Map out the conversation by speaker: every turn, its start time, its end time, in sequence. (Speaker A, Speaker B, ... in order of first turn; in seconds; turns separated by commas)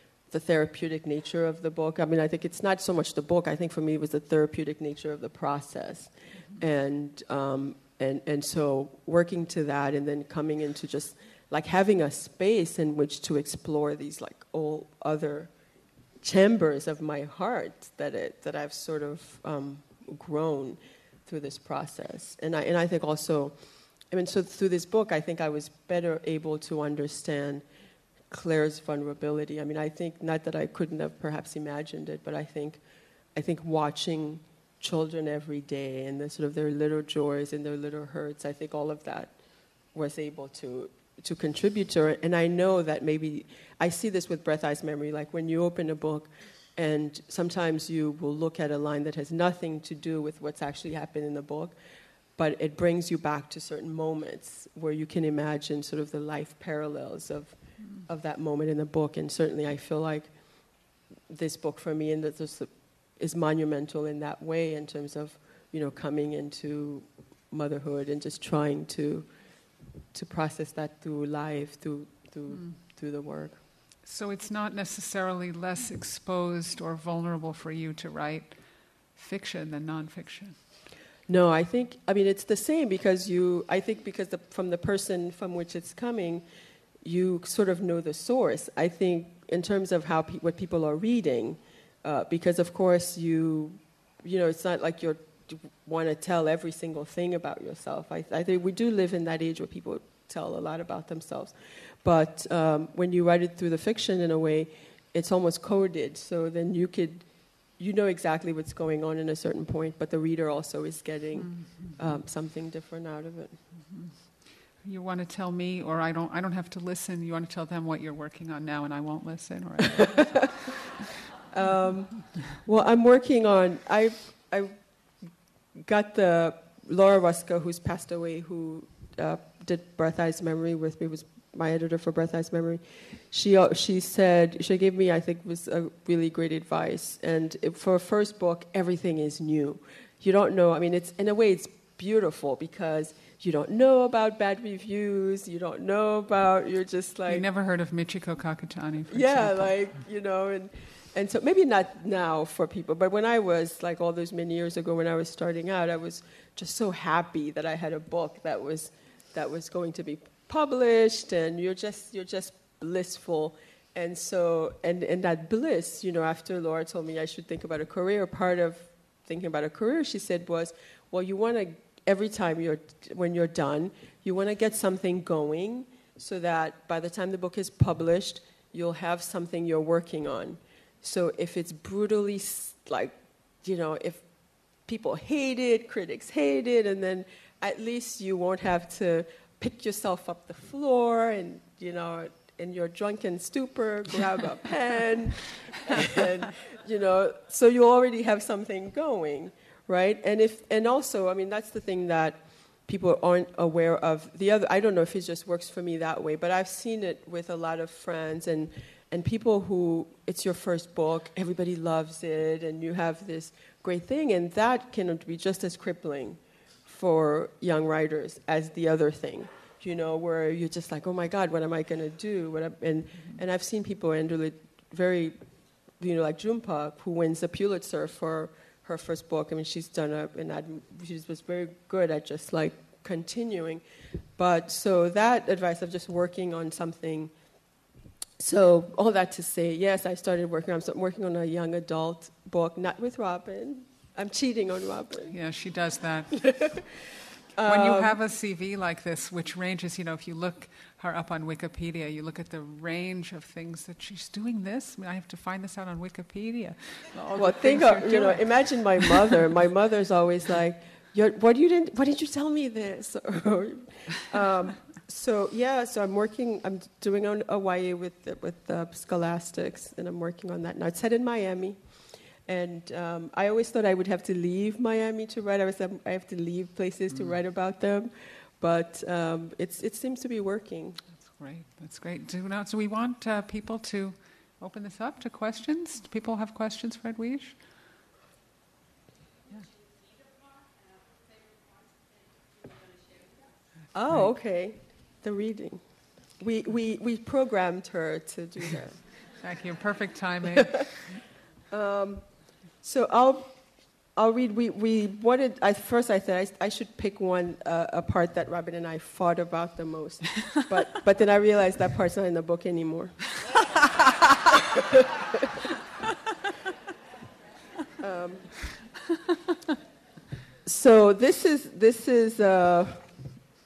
Speaker A: 0.3-15.5, Speaker A: 16.2-27.6, Speaker A: 28.3-32.8, Speaker A: 33.4-39.4, Speaker A: 39.9-51.8, Speaker A: 52.4-60.3, Speaker A: 61.3-69.3, Speaker A: 70.1-73.6, Speaker B: 74.0-78.6, Speaker B: 79.2-80.6, Speaker A: 81.3-86.5, Speaker A: 87.0-107.3, Speaker A: 107.8-113.6, Speaker B: 111.4-112.0, Speaker B: 113.9-114.2, Speaker B: 114.8-120.6, Speaker A: 120.2-120.5, Speaker A: 121.5-124.8, Speaker A: 125.8-147.4, Speaker B: 147.3-149.9, Speaker A: 149.1-184.2, Speaker A: 184.9-225.4, Speaker A: 226.0-233.8, Speaker A: 234.4-237.3, Speaker A: 238.4-245.3, Speaker B: 245.3-246.8, Speaker A: 246.4-246.7, Speaker A: 247.6-248.2, Speaker B: 247.7-259.2, Speaker A: 257.4-271.8, Speaker A: 272.4-281.0, Speaker B: 281.2-287.6, Speaker A: 293.9-295.8, Speaker A: 296.4-299.0, Speaker B: 299.4-301.1, Speaker A: 301.7-302.3, Speaker A: 302.8-303.5, Speaker A: 304.2-313.3, Speaker A: 314.7-315.4, Speaker A: 318.0-318.6, Speaker A: 320.7-323.1